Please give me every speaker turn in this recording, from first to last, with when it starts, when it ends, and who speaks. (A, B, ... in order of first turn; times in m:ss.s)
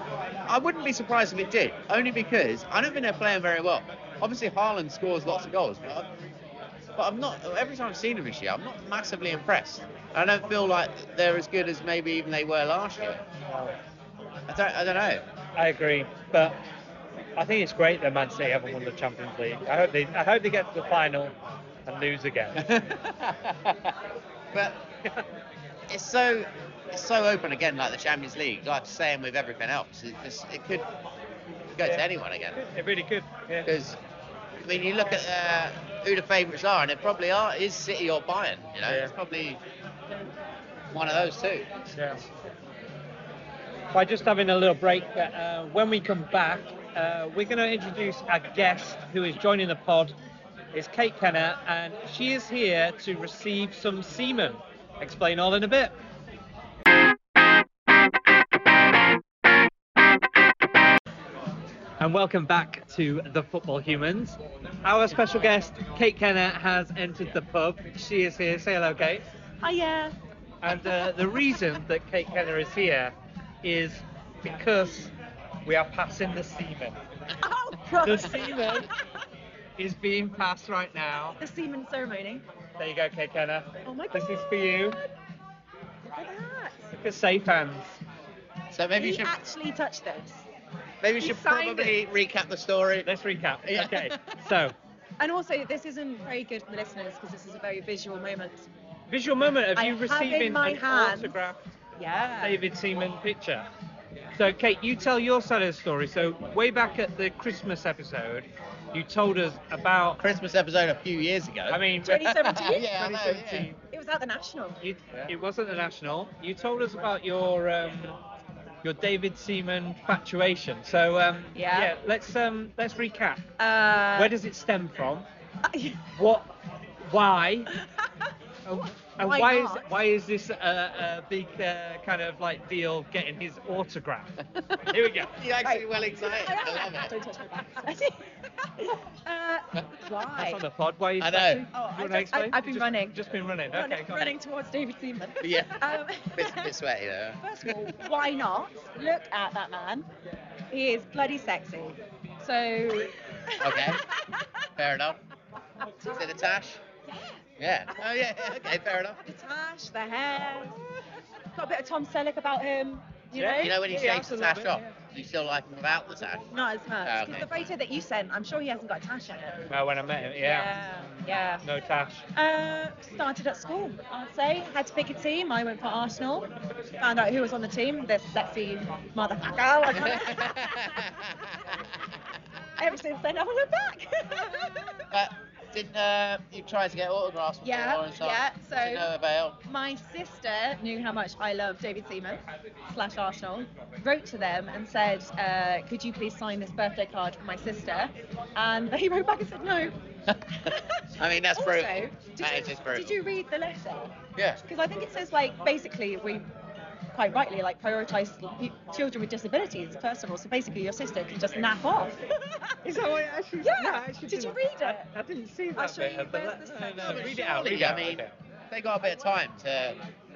0:00.5-0:06.1 A
0:07.0-0:13.2 A
0:13.5-0:13.7 B
0:14.5-0:15.2 A
0:15.6-0:16.6 B
0:17.4-0:21.3 B
0:21.8-0:22.6 B
0:22.6-0:23.9 A
0:24.5-0:24.8 A
0:25.9-0:30.8 A
0:31.8-0:32.6 A
0:32.5-0:33.7 B
0:33.6-0:34.0 A
0:34.6-0:39.6 A
0:38.8-0:39.1 B
0:40.9-0:41.7 A
0:41.9-0:42.2 B
0:43.9-0:50.1 B
0:50.7-0:56.0 B
1:02.0-1:09.2 B
1:09.6-1:10.1 C
1:10.6-1:15.1 B
1:10.7-1:11.1 C
1:15.6-1:17.0 B
1:17.4-1:18.9 C
1:18.0-1:18.9 B
1:19.8-1:21.4 B
1:21.4-1:22.4 C
1:22.8-1:25.0 B
1:23.8-1:25.0 C
1:26.1-1:26.9 C
1:26.9-1:28.0 B
1:28.7-1:29.3 A
1:28.9-1:30.4 C
1:31.0-1:33.1 A
1:31.2-1:31.9 B
1:31.3-1:31.6 C
1:33.0-1:34.7 B
1:33.6-1:34.4 A
1:35.2-1:38.7 C
1:39.1-1:41.6 B
1:39.8-1:41.4 C
1:42.0-1:42.6 C
1:42.4-1:43.6 B
1:44.3-1:50.2 B
1:50.2-1:53.7 A
1:51.7-1:52.3 B
1:52.0-1:52.9 C
1:52.8-1:53.8 B
1:53.8-1:54.8 C
1:54.8-1:58.2 B
1:58.8-2:03.4 B
2:01.5-2:01.9 C
2:03.6-2:04.3 C
2:04.1-2:05.3 B
2:05.7-2:06.0 C
2:06.2-2:06.5 B
2:07.0-2:07.7 B
2:07.7-2:08.1 C
2:08.6-2:14.4 B
2:09.2-2:09.9 C
2:14.6-2:17.1 A
2:14.9-2:15.3 B
2:15.6-2:20.6 C
2:20.3-2:24.3 B
2:21.2-2:21.6 A
2:21.7-2:26.7 C
2:25.4-2:28.1 A
2:27.4-2:30.1 C
2:30.7-2:34.7 C
2:33.6-2:34.0 A
2:34.8-2:35.2 A
2:35.8-2:36.3 C
2:36.1-2:36.8 A
2:37.0-2:37.4 C
2:37.6-2:39.2 A
2:37.9-2:40.8 C
2:41.5-2:43.8 C
2:43.3-2:44.9 B
2:43.6-2:46.5 A
2:46.5-2:49.6 C
2:47.0-2:47.7 A
2:49.7-2:52.2 B
2:50.4-2:51.6 C
2:52.3-2:56.5 C
2:57.0-3:01.7 C
2:59.9-3:02.1 A
3:02.8-3:05.1 C
3:05.1-3:09.6 A
3:07.6-3:09.1 C
3:09.7-3:19.9 C
3:20.3-3:23.2 A
3:20.6-3:24.1 C
3:24.6-3:26.4 C
3:27.1-3:35.1 C
3:32.8-3:38.3 B
3:35.8-3:37.4 C
3:37.0-3:40.0 A